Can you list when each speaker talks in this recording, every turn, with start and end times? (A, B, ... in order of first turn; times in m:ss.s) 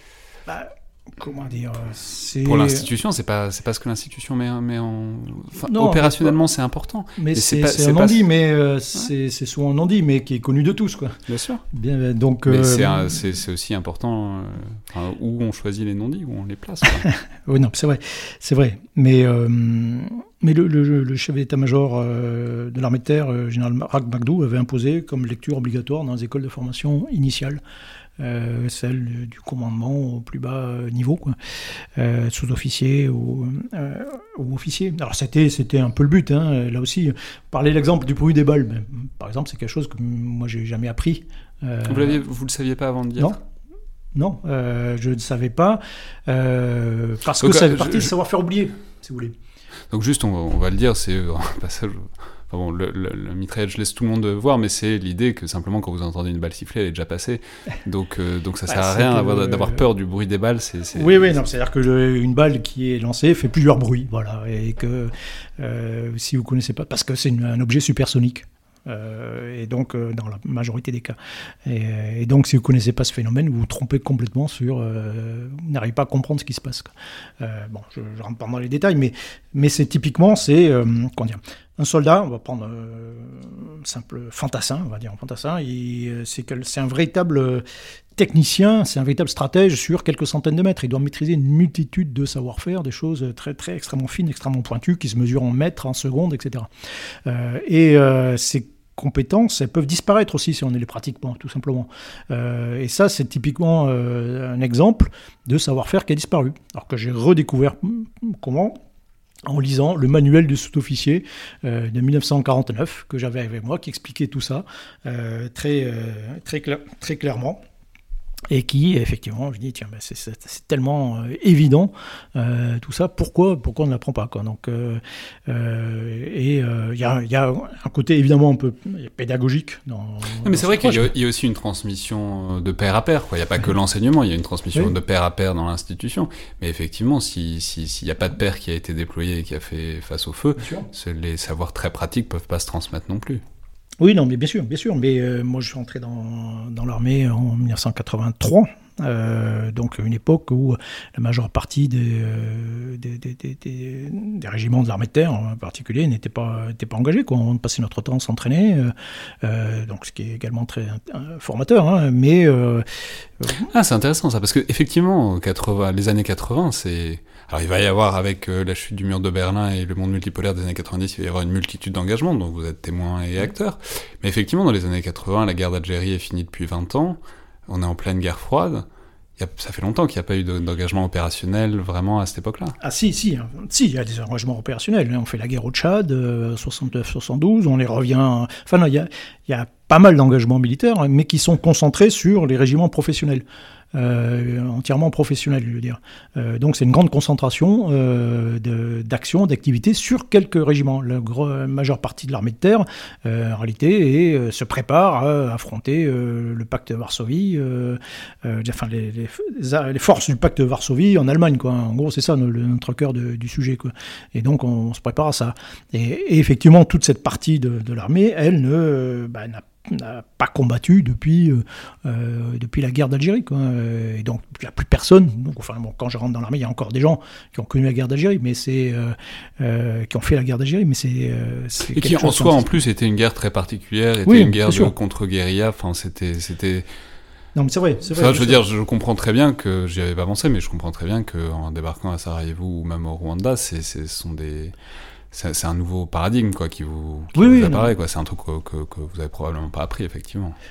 0:00.5-0:02.9 A
0:02.4-0:08.2 B
0:05.6-0:06.4 A
0:07.2-0:13.1 A
0:11.3-0:11.6 B
0:12.5-0:17.0 B
0:16.9-0:27.6 A
0:28.2-0:42.2 A
0:41.9-0:43.4 B
0:44.2-0:49.4 A
0:47.3-0:48.1 B
0:49.9-1:01.4 B
0:58.7-0:59.9 A
1:00.9-1:27.6 A
1:28.2-1:36.7 A
1:37.3-1:48.8 A
1:49.5-1:57.6 A
1:58.5-2:11.1 A
2:10.4-2:23.4 B
2:20.6-2:20.9 A
2:24.0-2:42.8 A
2:43.4-2:43.7 A
2:43.6-2:58.9 B
2:59.4-3:02.8 B
3:02.8-3:52.7 A
3:51.9-3:56.9 B
3:54.3-3:54.9 A
3:57.6-3:58.6 A
3:58.1-4:04.8 B
4:05.3-4:10.6 B
4:07.4-4:07.9 A